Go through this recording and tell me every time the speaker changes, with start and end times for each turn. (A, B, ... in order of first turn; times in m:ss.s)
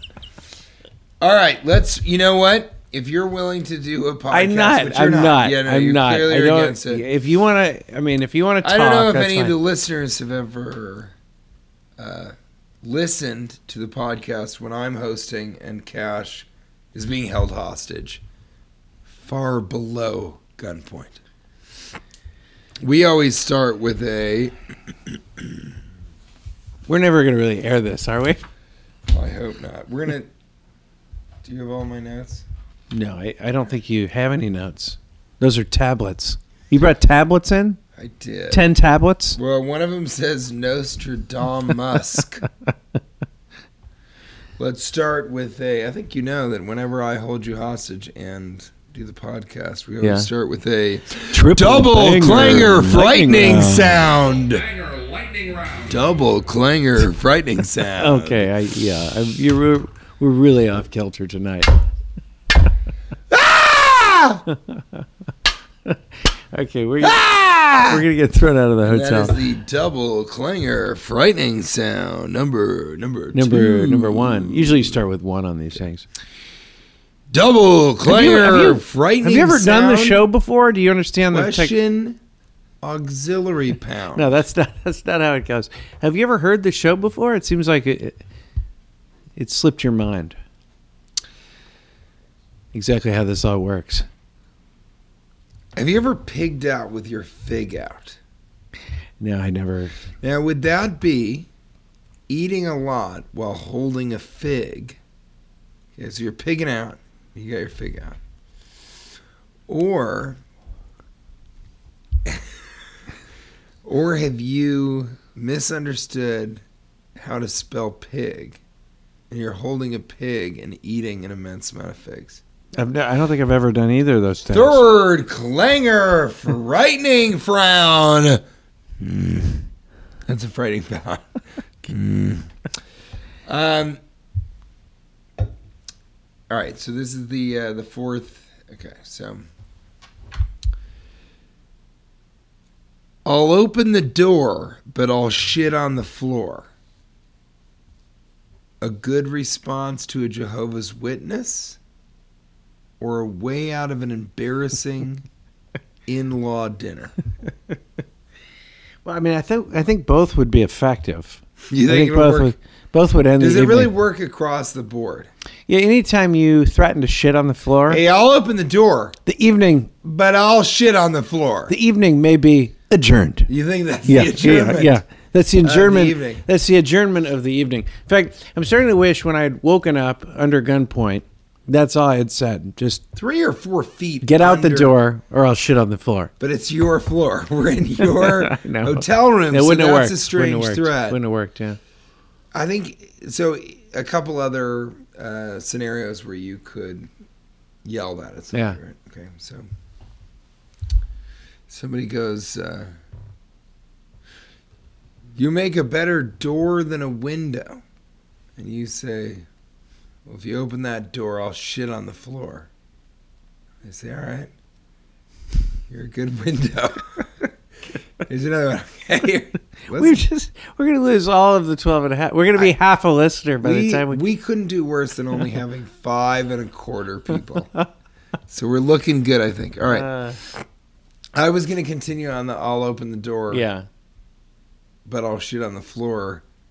0:01.2-0:07.0 A
0:04.3-0:09.5 B
0:08.6-0:11.1 A
0:12.0-0:18.2 A
0:19.1-0:21.2 A
0:22.8-0:25.5 A
0:26.9-0:28.4 B
0:29.1-0:30.3 A
0:31.4-0:32.4 A
0:32.9-0:37.8 B
0:38.0-0:38.7 A
0:38.5-0:39.4 B
0:39.3-0:42.5 A
0:44.6-0:54.6 A
0:50.0-0:50.3 B
0:51.3-0:54.0 B
0:54.1-0:56.0 C
0:55.9-0:58.5 A
0:58.0-1:01.8 B
1:03.3-1:04.4 A
1:04.5-1:04.8 B
1:06.5-1:07.2 B
1:07.0-1:08.0 A
1:07.8-1:09.4 B
1:08.8-1:15.0 A
1:13.3-1:16.0 B
1:17.3-1:20.2 A
1:18.0-1:21.7 B
1:21.3-1:22.2 A
1:22.8-1:24.3 A
1:24.1-1:28.2 B
1:29.4-1:30.4 B
1:32.7-1:34.1 B
1:35.8-1:38.2 A
1:39.2-1:40.0 B
1:40.2-1:41.5 A
1:42.3-1:45.0 A
1:46.0-1:48.2 A
1:49.7-1:50.4 A
1:53.8-1:56.6 A
1:57.2-1:58.6 A
1:59.3-2:02.4 A
2:02.8-2:04.8 B
2:04.5-2:08.4 A
2:09.0-2:09.7 A
2:10.3-2:11.3 A
2:11.8-2:12.5 A
2:13.5-2:14.0 A
2:16.5-2:19.5 A
2:23.2-2:26.7 A
2:28.8-2:31.8 A
2:33.0-2:35.2 A
2:36.1-2:37.1 A
2:39.0-2:43.9 B
2:41.7-2:42.5 A
2:43.4-2:45.3 A
2:45.7-2:48.0 B
2:47.9-2:49.2 A
2:49.2-2:49.9 B
2:50.0-2:51.7 A
2:51.7-2:53.5 B
2:53.5-2:55.0 A
2:54.0-3:03.0 B
2:55.6-2:56.4 A
3:03.1-3:05.0 A
3:04.2-3:06.3 B
3:06.4-3:11.2 A
3:08.0-3:11.8 B
3:12.5-3:17.1 A
3:17.8-3:19.6 A
3:18.5-3:18.8 B
3:21.7-3:22.9 A
3:25.4-3:27.8 A
3:28.6-3:29.4 A
3:30.2-3:32.7 A
3:33.8-3:34.5 A
3:35.9-3:37.2 A
3:38.2-3:40.2 A
3:39.9-3:44.2 B
3:43.6-3:47.7 A
3:48.5-3:50.5 A
3:49.9-3:50.4 B
3:51.3-3:53.6 A
3:53.5-3:53.8 B
3:55.0-3:56.4 A